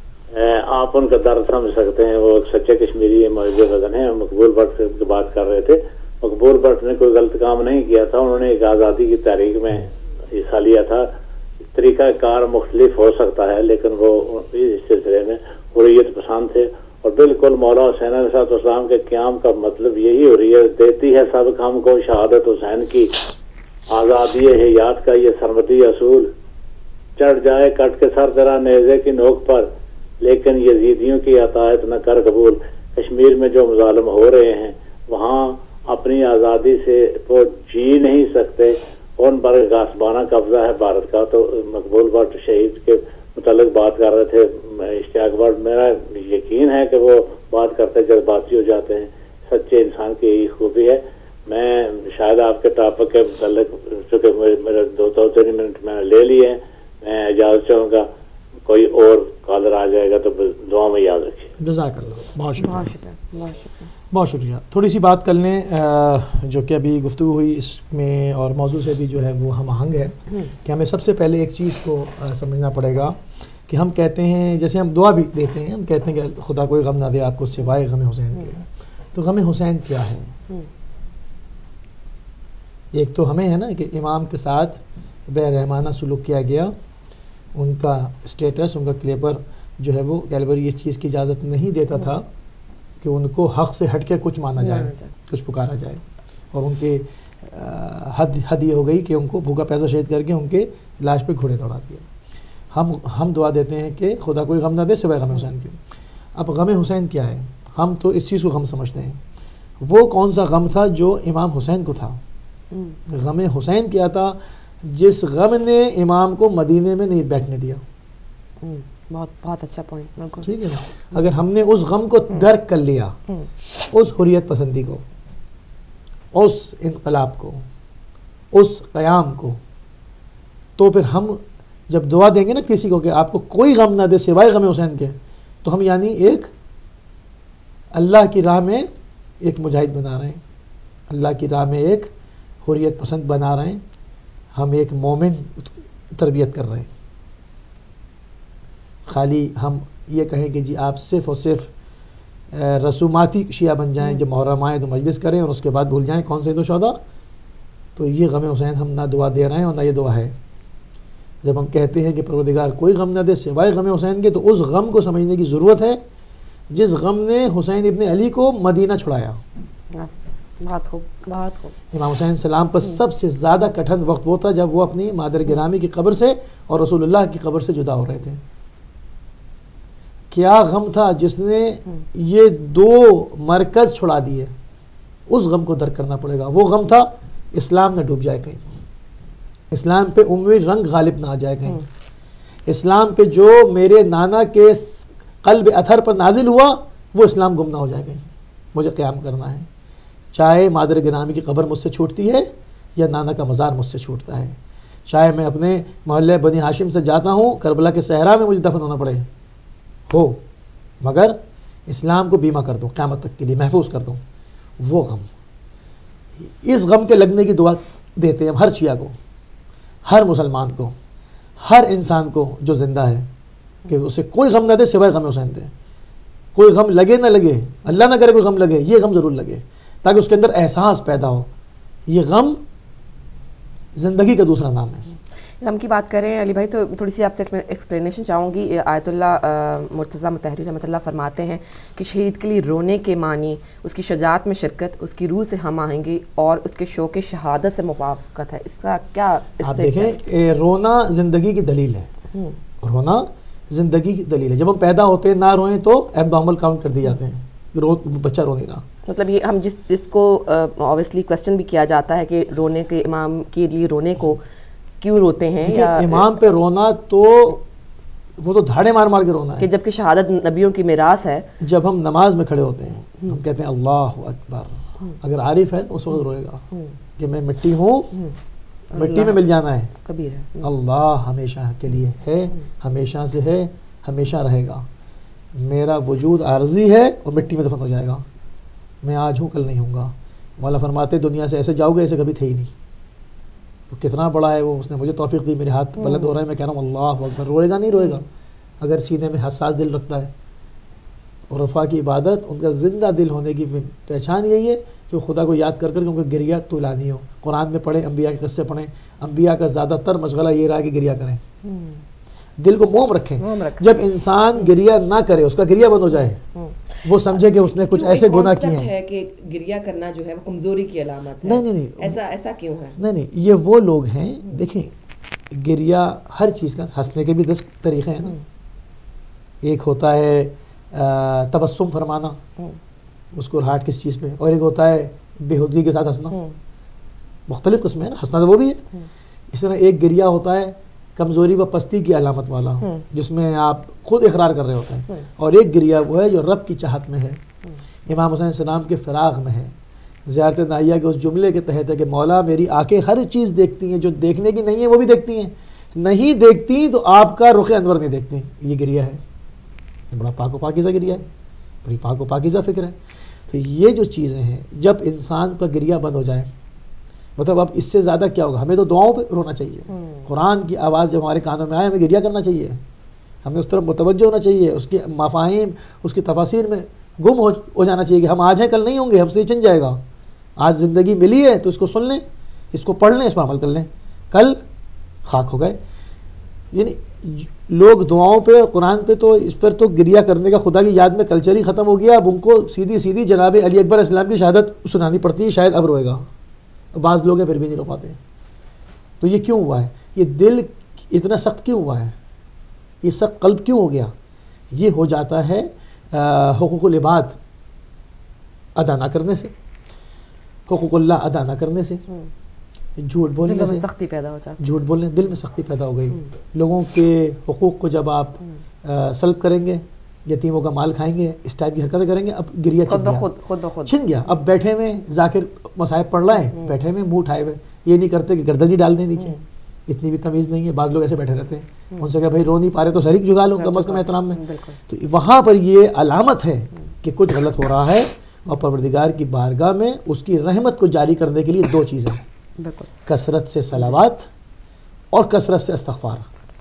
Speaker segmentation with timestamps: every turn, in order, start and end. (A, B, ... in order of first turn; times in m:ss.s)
0:00.3-0:11.1 A
0:11.7-0:23.1 A
0:23.9-0:26.3 A
0:27.2-0:29.7 A
0:30.2-0:58.0 A
0:58.6-1:01.5 A
1:01.6-1:02.9 B
1:02.6-1:03.9 C
1:04.1-1:13.2 B
1:13.7-1:20.3 B
1:22.9-1:26.7 B
1:27.6-1:32.3 B
1:33.0-1:36.0 B
1:34.6-1:35.1 C
1:36.5-1:42.0 B
1:42.7-1:45.8 B
1:46.3-1:49.2 B
1:49.8-1:52.2 B
1:52.7-1:53.0 C
1:53.1-1:57.8 B
1:58.6-2:00.5 C
2:00.4-2:03.2 B
2:03.9-2:05.0 B
2:06.3-2:07.6 B
2:08.5-2:09.6 B
2:10.8-2:16.5 B
2:17.9-2:18.9 B
2:19.4-2:20.4 B
2:21.1-2:22.1 B
2:22.6-2:23.8 B
2:24.5-2:26.9 B
2:29.1-2:31.7 B
2:32.5-2:37.0 B
2:38.0-2:40.3 B
2:41.4-2:46.0 B
2:46.7-2:49.4 B
2:49.9-2:51.7 C
2:51.9-2:58.4 B
3:00.3-3:04.5 B
3:05.3-3:08.8 B
3:09.7-3:11.8 B
3:12.7-3:19.7 B
3:20.3-3:24.6 B
3:25.1-3:29.3 B
3:30.1-3:30.4 B
3:31.0-3:34.2 B
3:34.8-3:35.3 B
3:36.4-3:39.1 B
3:40.0-3:40.9 B
3:41.6-3:43.3 B
3:43.9-3:45.7 B
3:46.5-3:51.5 B
3:52.1-3:52.6 B
3:54.0-3:55.1 B
3:55.6-4:10.2 C
4:09.6-4:12.1 B
4:12.3-4:12.6 C
4:12.8-4:18.8 B
4:19.1-4:24.4 C
4:25.0-4:26.3 C
4:25.6-4:27.6 B
4:28.4-4:29.7 B
4:29.6-4:31.5 C
4:31.6-4:36.6 B
4:36.7-4:37.0 C
4:37.2-4:38.1 B
4:38.9-4:39.4 C
4:38.9-4:39.9 B
4:39.9-4:40.7 C
4:40.6-4:44.8 B
4:45.6-4:48.2 B
4:49.0-4:52.7 B
4:53.9-4:58.2 B
4:56.0-4:56.4 C
4:58.0-4:58.2 C
4:58.8-5:00.3 B
5:01.5-5:11.4 B
5:11.6-5:12.0 C
5:12.6-5:16.4 B
5:13.4-5:14.0 C
5:16.5-5:23.0 C
5:17.0-5:18.9 B
5:21.4-5:22.2 B
5:23.0-5:24.9 B
5:25.5-5:28.4 B
5:29.6-5:32.4 B
5:33.3-5:36.4 B
5:36.3-5:36.6 C
5:37.5-5:38.8 B
5:39.5-5:47.4 B
5:42.8-5:43.0 C
5:48.1-5:49.7 B
5:50.3-5:59.2 B
6:00.1-6:01.2 B
6:01.8-6:03.0 B
6:03.5-6:06.5 B
6:07.4-6:12.8 B
6:09.9-6:10.3 C
6:13.4-6:20.0 B
6:20.6-6:24.6 B
6:25.2-6:25.8 B
6:26.7-6:36.2 B
6:36.9-6:38.2 B
6:39.2-6:42.1 B
6:43.0-6:44.1 B
6:44.7-6:47.4 B
6:48.8-6:49.5 B
6:50.7-6:52.0 B
6:53.0-6:53.9 B
6:53.4-6:54.6 C
6:54.6-7:03.2 B
7:02.9-7:04.0 C
7:03.8-7:09.4 B
7:06.4-7:06.7 C
7:09.2-7:09.4 C
7:09.9-7:22.2 B
7:13.5-7:14.8 C
7:22.6-7:22.9 C
7:23.0-7:24.3 B
7:25.1-7:26.2 B